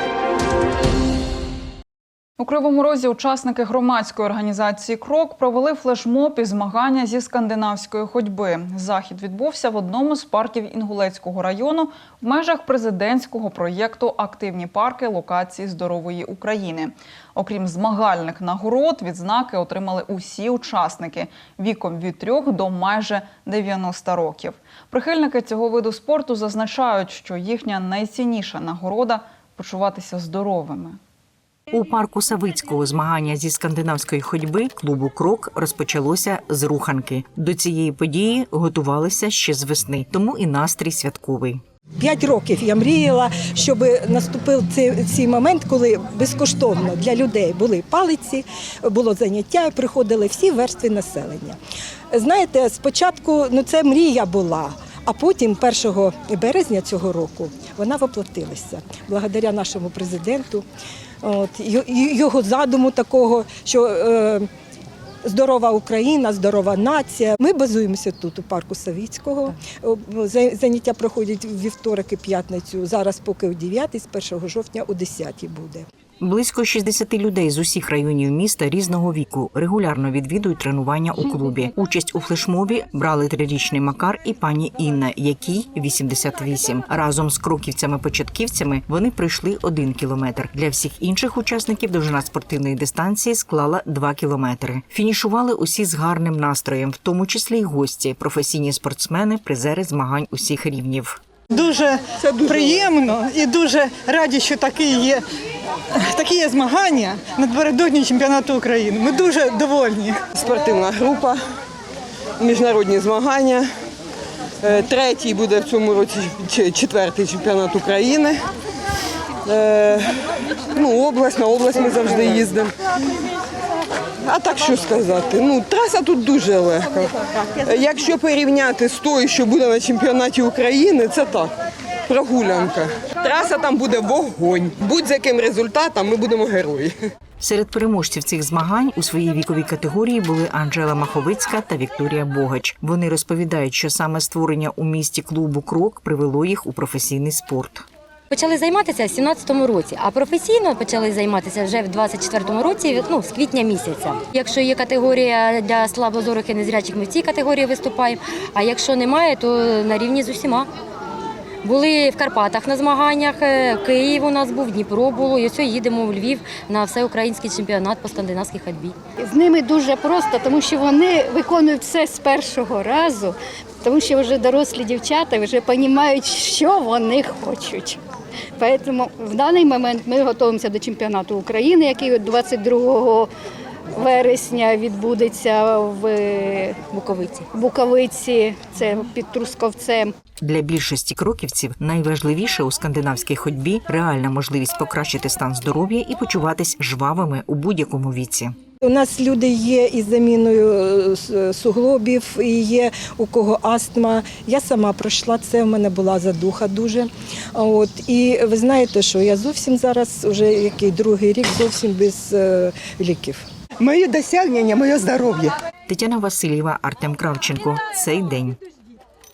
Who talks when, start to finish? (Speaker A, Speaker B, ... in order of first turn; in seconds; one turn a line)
Speaker A: 2.4-31.0
Speaker B: 31.7-41.6
Speaker C: 42.0-51.6
Speaker C: 52.1-60.6
Speaker C: 61.2-64.5
Speaker C: 65.2-75.9
Speaker B: 76.2-101.2
Speaker D: 101.5-105.2
Speaker E: 102.2-102.9
Speaker D: 106.1-110.2
Speaker E: 110.3-111.4
Speaker E: 112.4-113.7
Speaker E: 114.6-118.5
Speaker E: 119.5-120.2
Speaker E: 120.7-122.8
Speaker E: 124.2-131.5
Speaker E: 132.1-136.9
Speaker B: 137.4-147.8
Speaker F: 148.3-160.7
Speaker F: 161.6-169.0
Speaker G: 169.2-178.0
Speaker G: 178.6-183.3
Speaker G: 183.9-190.1
Speaker F: 186.9-187.4
Speaker B: 190.4-198.6
Speaker C: 198.8-213.5
Speaker E: 213.8-215.6
Speaker B: 215.9-218.6